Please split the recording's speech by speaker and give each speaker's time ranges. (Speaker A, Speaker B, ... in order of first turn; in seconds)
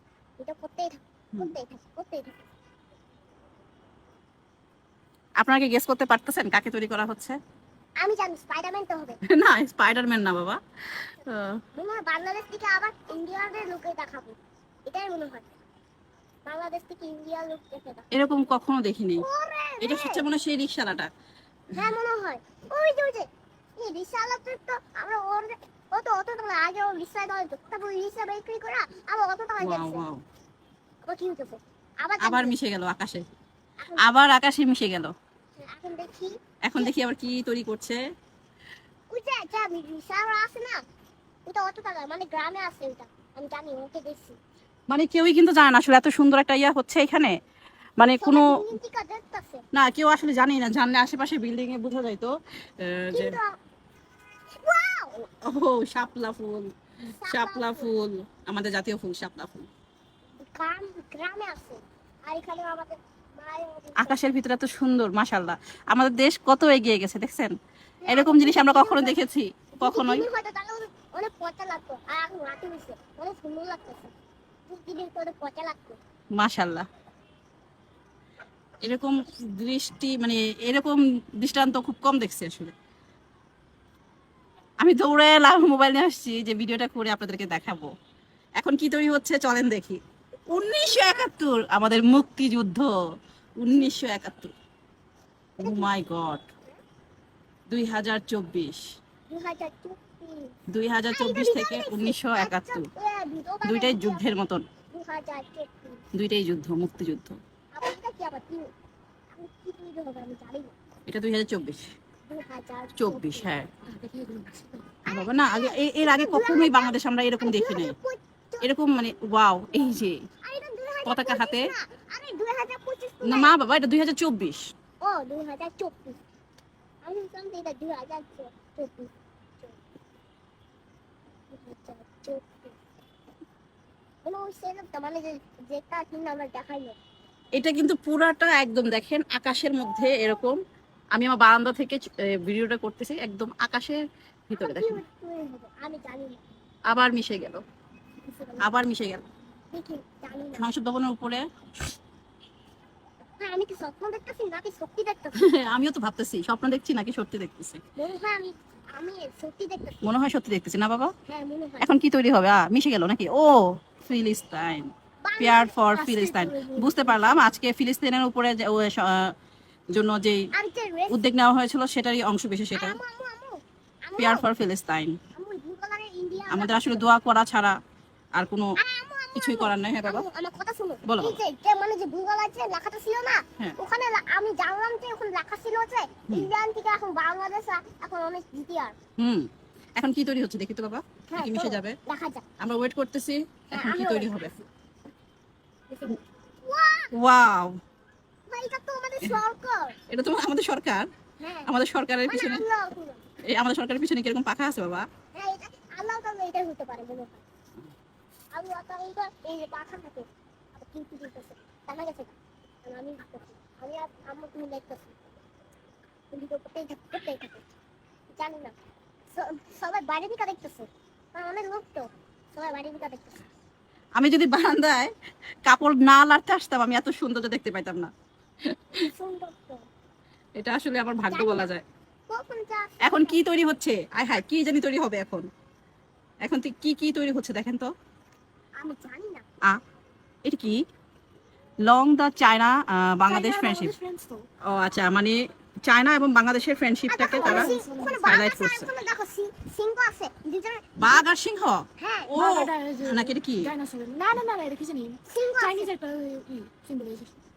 Speaker A: 0.4-2.5, 8.0-9.2, 11.7-14.4, 14.9-15.6, 16.5-18.1, 19.2-20.3, 21.8-30.0, 31.0-32.5, 33.8-34.0, 35.6-36.9, 39.1-40.8, 41.5-44.4, 48.2-49.6, 53.1-53.5, 54.5-55.1, 57.1-57.9, 60.4-64.2, 68.0-69.2, 69.8-74.1, 74.7-76.0, 95.6-95.9, 99.3-100.5, 101.1-104.3, 104.9-106.0, 107.7-108.7, 109.3-110.8, 112.3-113.5, 115.0-118.7, 120.4-123.5, 125.0-126.2, 127.0-129.8, 131.5-132.8, 134.2-137.0, 144.6-146.4, 148.2-148.7, 149.7-150.7, 153.4-155.4, 158.0-160.1, 161.3-161.9, 165.2-167.4, 170.5-171.3, 172.8-174.5, 175.3-177.1, 178.8-189.0, 191.3-192.4, 193.7-194.7, 195.9-197.1, 198.5-200.0, 201.4-201.7, 202.3-203.3, 205.3-207.4, 208.5-215.4, 216.3-217.6, 218.3-218.8, 219.3-223.4, 228.9-229.9, 231.3-231.7, 232.3-233.4, 238.8-239.4, 247.1-251.2, 252.0-252.3, 255.3-255.9
Speaker B: 5.4-7.4, 9.3-11.6, 18.1-19.2, 19.8-21.1, 29.6-30.2, 32.2-33.2, 34.0-35.1, 36.6-38.0, 44.9-47.4, 48.0-48.6, 49.7-53.4, 55.4-56.7, 57.2-59.7, 64.0-67.5, 68.1-70.3, 76.4-76.9, 78.8-82.7, 84.8-87.9, 88.6-92.9, 93.6-94.5, 95.6-96.5, 97.7-98.8, 100.7-102.9, 103.7-104.7, 106.1-107.4, 111.1-111.9, 113.0-113.7, 115.1-118.0, 118.6-120.2, 121.0-121.7, 123.2-124.7, 137.5-140.6, 141.1-145.0, 146.9-147.6, 148.6-149.2, 150.6-151.4, 155.4-157.8, 160.0-161.1, 161.8-169.3, 169.9-170.5, 171.1-173.0, 174.2-175.2, 176.5-177.8, 178.3-178.8, 179.4-180.3, 181.1-181.4, 189.2-192.0, 192.6-194.5, 197.1-197.8, 200.1-201.1, 201.7-202.7, 203.5-205.1, 224.2-225.1, 225.7-228.1, 228.7-229.0, 230.6-231.8, 233.0-235.5, 236.4-237.9, 240.4-240.8, 241.8-243.9, 244.6-248.9, 251.0-253.7
Speaker C: 113.9-114.9, 243.3-244.4, 247.3-248.4, 252.3-257.4